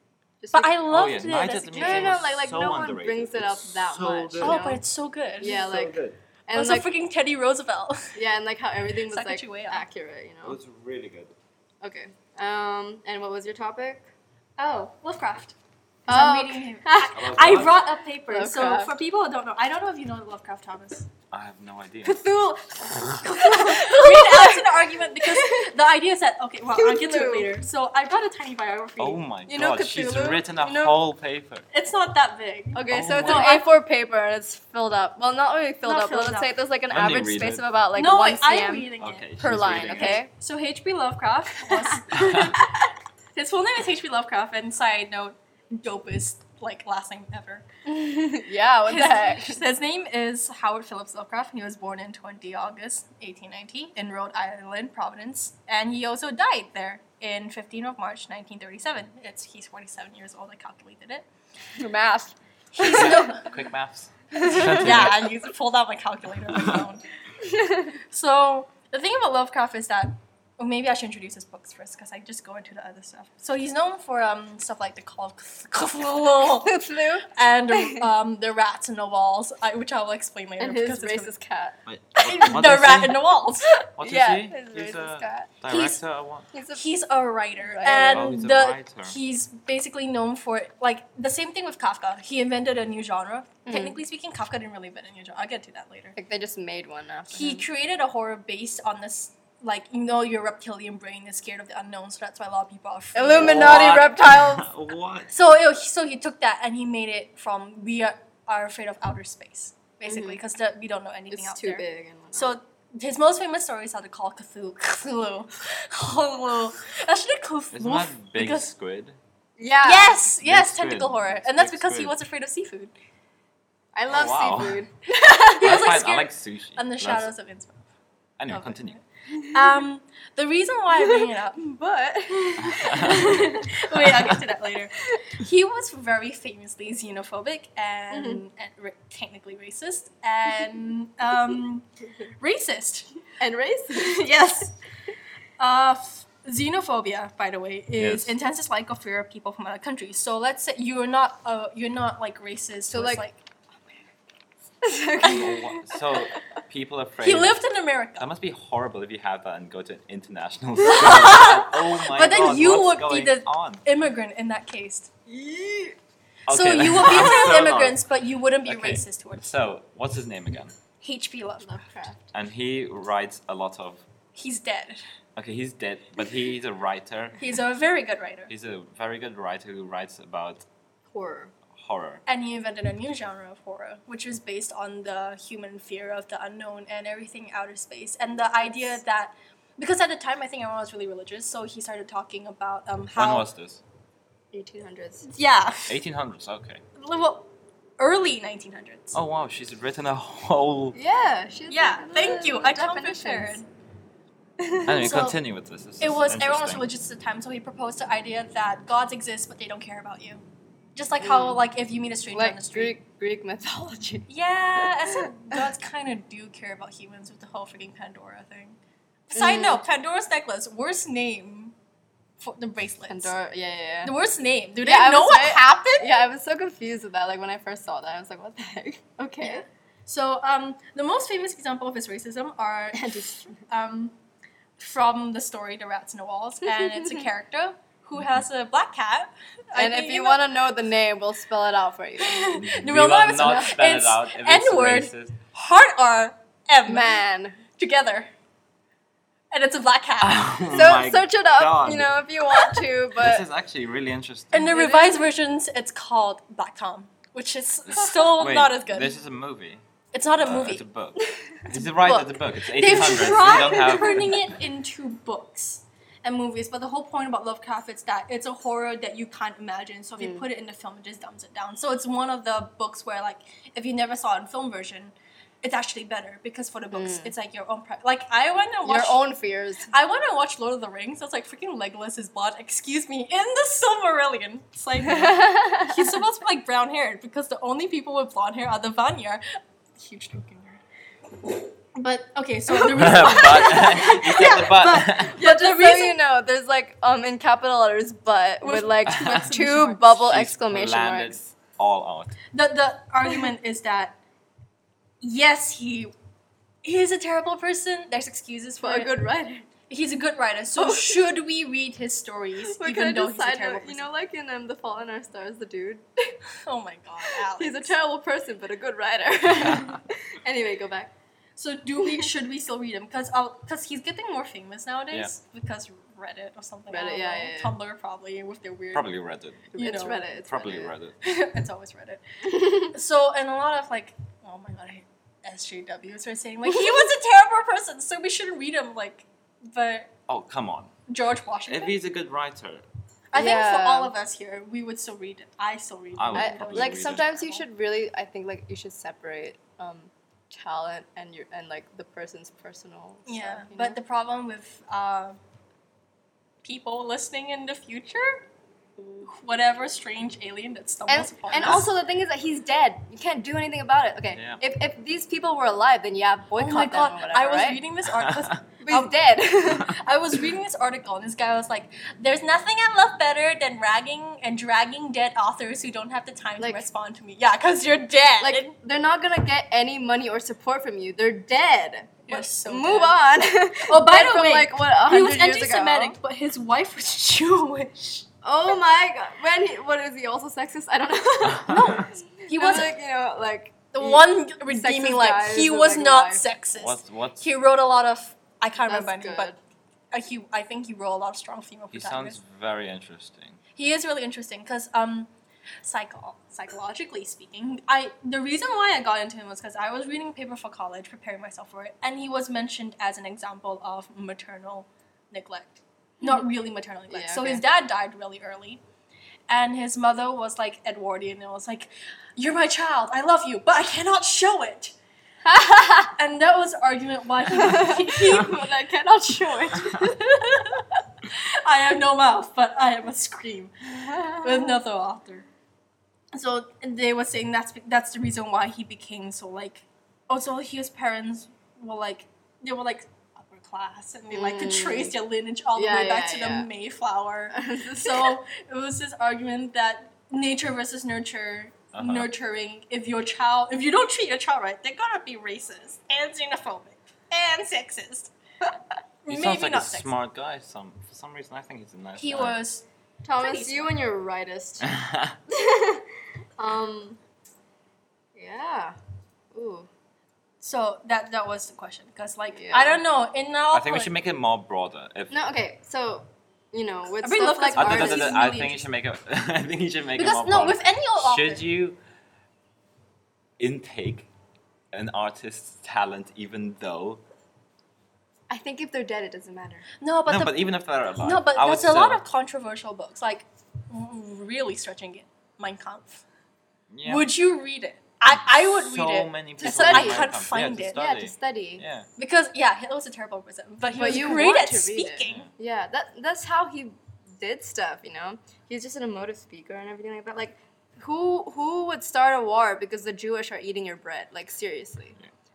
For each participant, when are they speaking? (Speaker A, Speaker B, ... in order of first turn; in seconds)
Speaker A: 0.4-0.8, 1.7-4.8, 5.4-6.9, 8.1-10.6, 11.8-14.1, 16.1-17.7, 18.3-18.9, 22.0-25.7, 26.7-27.5, 29.5-31.0, 32.7-40.3, 41.7-42.9, 47.9-49.6, 61.8-63.4, 64.3-65.1, 67.4-68.0, 76.5-77.3, 80.6-81.8, 83.8-85.5, 86.5-86.8, 87.6-88.3, 93.7-94.0, 96.2-97.7, 103.1-104.7, 110.0-110.4, 111.3-112.6, 119.6-120.2, 123.9-125.8, 129.3-129.8, 131.0-133.7, 138.1-138.4, 143.4-144.2, 152.9-153.2, 154.8-155.6, 156.1-156.4, 165.3-166.0, 171.6-172.2, 181.1-181.5, 188.5-189.0, 194.5-195.2, 200.9-203.6, 204.6-205.2, 211.2-211.6, 212.3-215.6, 219.3-219.8, 223.1-224.1, 224.8-229.6, 232.9-233.6, 236.7-237.2, 239.7-242.6, 246.8-247.6, 250.7-253.4, 254.7-255.2, 261.2-261.6, 270.2-270.4, 276.9-277.3, 278.8-279.9, 285.0-286.0, 292.7-294.5, 295.1-301.5, 308.8-309.7, 310.8-311.3, 312.8-316.4, 317.5-321.1, 322.0-322.3, 326.9-327.7, 329.7-330.9, 332.5-332.9, 343.3-344.1, 346.3-354.0, 359.0-359.3, 361.1-367.8, 368.8-369.9, 376.6-376.8, 378.4-386.2, 388.4-396.4, 398.9-399.6, 417.1-417.6, 425.4-426.1, 427.5-430.2, 433.9-434.8, 444.3-445.1, 445.8-446.7, 447.5-448.4, 463.2-464.9, 465.5-466.0, 466.6-467.2, 468.3-469.0, 469.5-469.9, 472.5-473.0, 475.3-478.4, 488.5-489.9, 499.6-500.3, 500.9-501.8, 503.9-515.2
Speaker B: 0.5-2.2, 4.4-5.7, 6.5-8.2, 9.1-9.8, 14.6-15.6, 16.1-21.1, 23.3-29.2, 31.7-33.7, 35.8-36.5, 38.0-42.6, 43.3-47.6, 48.9-61.2, 62.7-63.5, 64.5-67.0, 68.1-81.3, 82.2-83.7, 85.7-86.0, 86.7-96.2, 97.3-104.0, 105.3-111.8, 112.3-118.7, 119.8-122.9, 125.5-127.9, 128.5-131.8, 132.3-141.8, 142.4-143.2, 143.9-144.8, 145.6-153.4, 155.2-155.8, 157.2-158.3, 160.8-165.1, 166.5-169.5, 171.0-171.9, 174.3-175.0, 177.4-178.5, 182.3-193.5, 195.2-196.0, 197.0-199.2, 201.7-203.7, 204.9-205.4, 206.0-210.4, 210.9-212.9, 214.3-218.8, 219.3-221.7, 222.4-223.3, 224.0-226.1, 229.4-234.1, 234.8-240.4, 242.2-247.2, 247.8-248.3, 249.5-250.6, 254.5-259.1, 260.1-260.8, 261.7-279.2, 279.9-289.4, 289.9-290.8, 291.9-296.2, 298.6-300.1, 302.5-304.1, 305.2-306.1, 306.8-309.2, 309.9-314.1, 316.6-317.9, 321.6-329.1, 329.7-330.2, 331.2-340.1, 341.1-341.9, 343.3-347.6, 353.3-355.4, 356.6-358.4, 359.3-361.8, 366.6-378.7, 382.3-388.3, 391.7-392.9, 393.9-399.5, 400.1-402.4, 403.8-405.3, 405.8-418.8, 419.5-424.9, 426.1-428.6, 430.1-435.5, 436.3-458.3, 459.2-460.1, 462.2-462.8, 463.4-464.0, 470.6-474.1, 477.2-478.9, 480.2-481.6, 490.0-496.2, 497.0-501.0, 502.2-505.5
Speaker C: 0.9-4.6, 5.4-6.2, 10.4-11.3, 17.1-17.8, 21.3-22.2, 29.0-31.6, 32.9-33.5, 36.9-37.6, 39.0-40.2, 42.1-42.6, 62.8-65.2, 66.5-66.8, 81.9-83.2, 84.0-86.5, 87.9-89.2, 103.3-105.3, 117.7-119.2, 120.2-122.1, 124.1-124.8, 125.6-127.3, 128.4-129.0, 132.6-134.4, 147.9-148.3, 155.2-157.6, 158.2-163.8, 166.5-168.0, 168.7-170.7, 172.3-174.1, 175.3-177.4, 178.5-180.6, 181.7-182.2, 193.1-193.8, 195.9-196.8, 199.1-200.9, 204.8-206.8, 242.5-245.3, 250.2-252.2, 253.2-254.8, 257.9-259.8, 260.4-264.5, 292.9-295.4, 299.1-299.5, 300.2-302.4, 319.6-320.0, 328.9-329.7, 330.4-331.2, 340.3-340.9, 341.6-342.9, 346.1-347.2, 361.5-361.9, 364.3-364.6, 368.2-368.5, 391.5-392.0, 396.7-397.5, 401.9-403.6, 451.9-452.3, 459.3-462.6, 464.8-465.4, 473.7-475.4, 477.8-482.0, 483.6-484.3, 484.9-487.2, 490.2-492.2, 496.9-497.3, 498.3-502.1, 505.2-505.5